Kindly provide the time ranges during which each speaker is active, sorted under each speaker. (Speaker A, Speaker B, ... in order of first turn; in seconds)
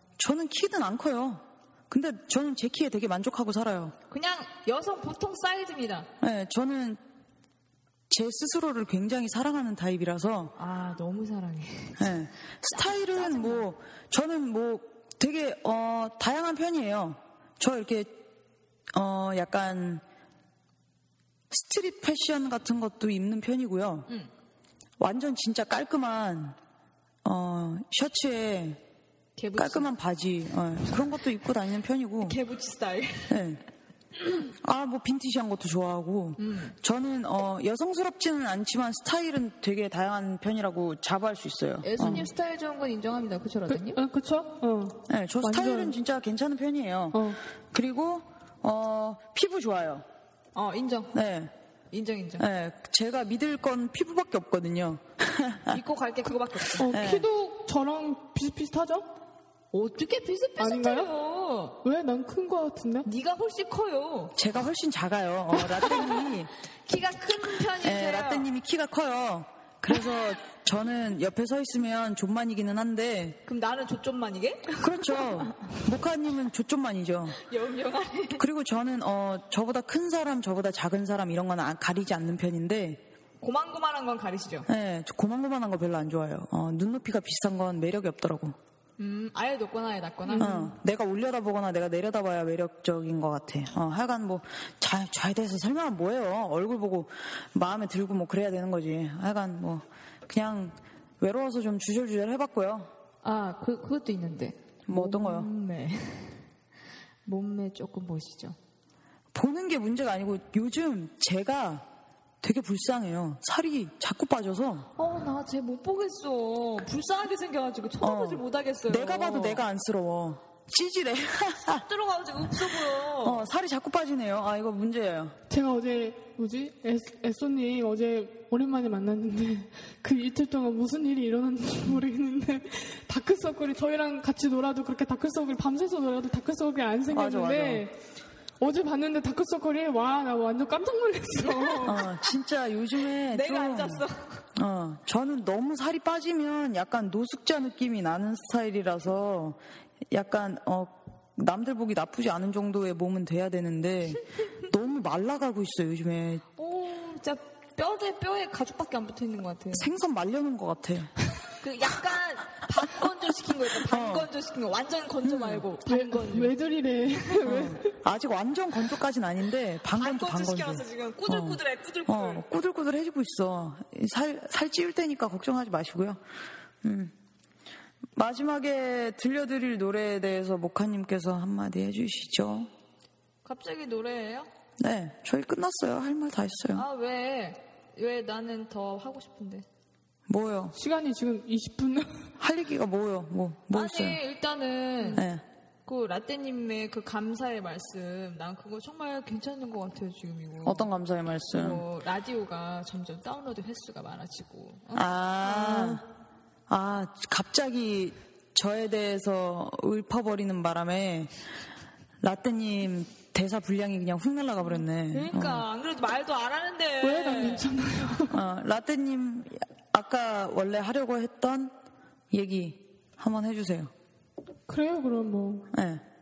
Speaker A: 0.2-3.9, 6.2-7.0, 8.1-10.5, 12.0-18.2, 18.9-20.0, 21.5-24.1, 25.0-26.6, 27.2-28.8, 29.6-32.4, 33.3-33.6, 34.5-42.2, 45.1-50.0, 51.1-51.5, 52.4-55.8, 56.9-57.3, 64.3-66.5, 67.8-73.4, 74.8-77.4, 78.4-83.0, 84.7-88.5, 90.4-102.9, 104.8-105.5, 109.3-111.8, 112.4-114.9, 118.0-121.8, 122.7-125.3, 137.1-137.8, 141.8-144.0, 144.5-149.6, 150.1-156.4, 159.7-161.1, 163.9-164.3, 165.2-165.7, 167.4-176.2, 176.8-177.1, 178.1-182.7, 184.8-186.8, 190.3-190.8, 192.4-194.2, 195.1-195.4, 200.6-201.8, 204.9-206.0, 206.7-211.3, 212.2-215.7, 218.3-221.7, 222.3-223.9, 225.7-226.0
Speaker B: 4.1-6.1, 10.6-12.1, 12.7-13.7, 29.4-29.9, 32.2-33.4, 36.4-36.8, 41.8-44.0, 50.5-51.1, 51.9-52.4, 55.7-56.9, 59.7-61.8, 63.0-64.3, 66.8-68.5, 73.5-75.6, 77.3-78.4, 83.4-84.7, 89.0-90.7, 103.2-106.4, 107.2-108.6, 115.0-119.6, 121.7-123.4, 141.4-142.0, 143.3-144.4, 156.6-159.9, 161.6-166.5, 169.9-172.4, 183.4-184.5, 186.7-189.6, 193.7-195.3, 195.8-200.9, 201.5-205.9, 215.1-217.7
Speaker C: 43.7-46.0, 47.1-47.4, 56.8-59.1, 60.6-61.1, 61.8-63.1, 90.3-90.6, 125.5-138.0, 138.6-142.0, 165.8-167.9, 190.8-192.3, 217.0-218.4, 224.7-225.7